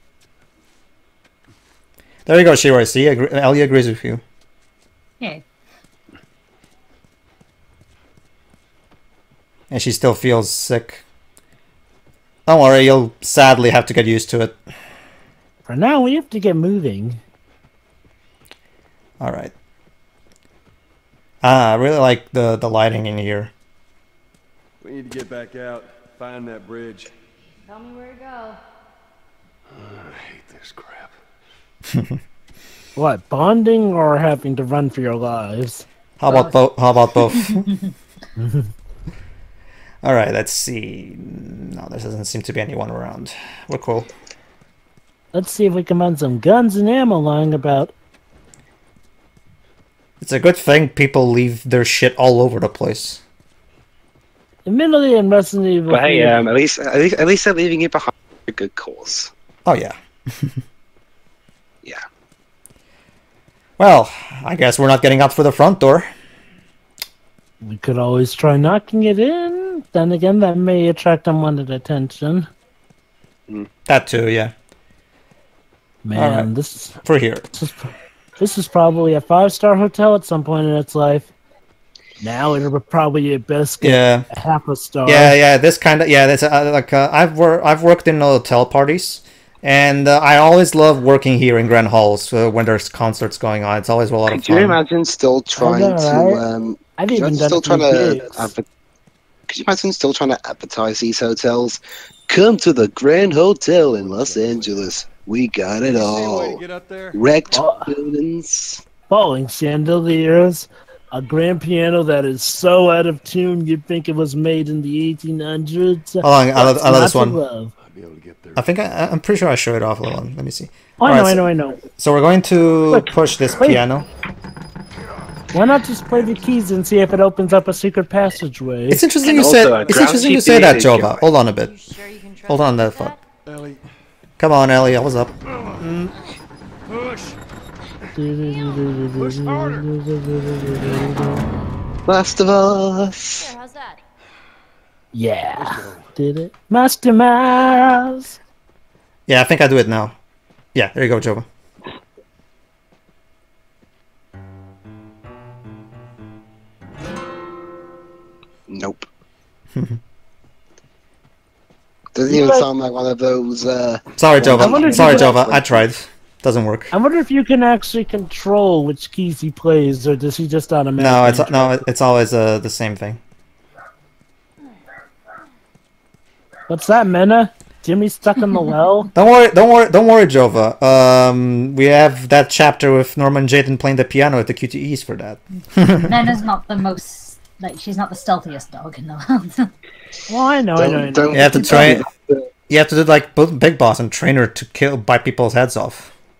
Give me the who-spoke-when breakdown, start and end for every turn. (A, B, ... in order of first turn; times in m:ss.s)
0:02.3-0:04.2 A
0:09.7-0:11.0 A
0:12.5-0:14.6 A
0:15.7-0:17.2 B
0:19.2-0:19.5 A
0:21.4-0:23.5 A
0:24.8-0:27.1 C
0:27.7-0:28.6 D
0:29.7-0:31.2 C
0:31.9-0:32.2 A
0:33.0-0:35.9 B
0:36.2-0:37.7 A
0:36.3-0:36.6 E
0:37.3-0:37.9 E
0:38.4-0:38.7 B
0:40.0-0:44.1 A
0:45.3-0:47.9 B
0:50.2-0:53.2 A
0:54.7-0:56.4 B
0:55.9-0:59.3 F
0:59.7-1:00.6 A
1:03.8-1:06.1 A
1:07.6-1:12.5 B
1:13.9-1:14.5 A
1:16.0-1:17.0 B
1:16.2-1:16.5 A
1:17.0-1:17.5 A
1:17.5-1:21.3 B
1:22.2-1:25.4 B
1:23.8-1:24.3 A
1:25.1-1:34.8 A
1:34.3-1:38.6 F
1:35.6-1:36.4 B
1:37.0-1:38.5 B
1:39.5-1:46.6 F
1:44.0-1:45.3 C
1:45.8-1:47.2 C
1:47.1-1:48.8 F
1:47.5-1:47.9 B
1:49.1-1:57.7 B
1:56.2-1:57.4 A
1:57.8-1:58.7 C
1:58.6-2:01.4 A
2:01.0-2:01.8 B
2:02.0-2:04.1 A
2:02.9-2:03.8 B
2:05.5-2:09.0 B
2:08.9-2:11.7 A
2:09.2-2:11.2 F
2:09.5-2:10.8 C
2:11.6-2:13.2 D
2:12.5-2:13.2 A
2:13.5-2:13.8 C
2:14.4-2:16.1 A
2:18.2-2:21.4 B
2:18.4-2:18.9 D
2:19.2-2:19.8 C
2:22.1-2:23.5 F
2:23.4-2:24.0 D
2:25.1-2:28.4 B
2:25.5-2:26.1 C
2:29.3-2:30.2 A
2:30.7-2:31.5 A
2:38.7-2:39.1 F
2:39.8-2:40.0 A
2:42.2-2:45.6 F
2:42.3-2:42.7 B
2:44.2-2:46.9 A
2:44.4-2:45.6 B
2:46.9-2:51.8 B
2:51.0-2:53.2 A
2:56.7-2:59.1 B
2:59.1-3:06.2 A
3:05.9-3:09.7 E
3:10.3-3:12.0 B
3:10.8-3:12.4 F
3:11.3-3:12.1 A
3:12.7-3:16.1 A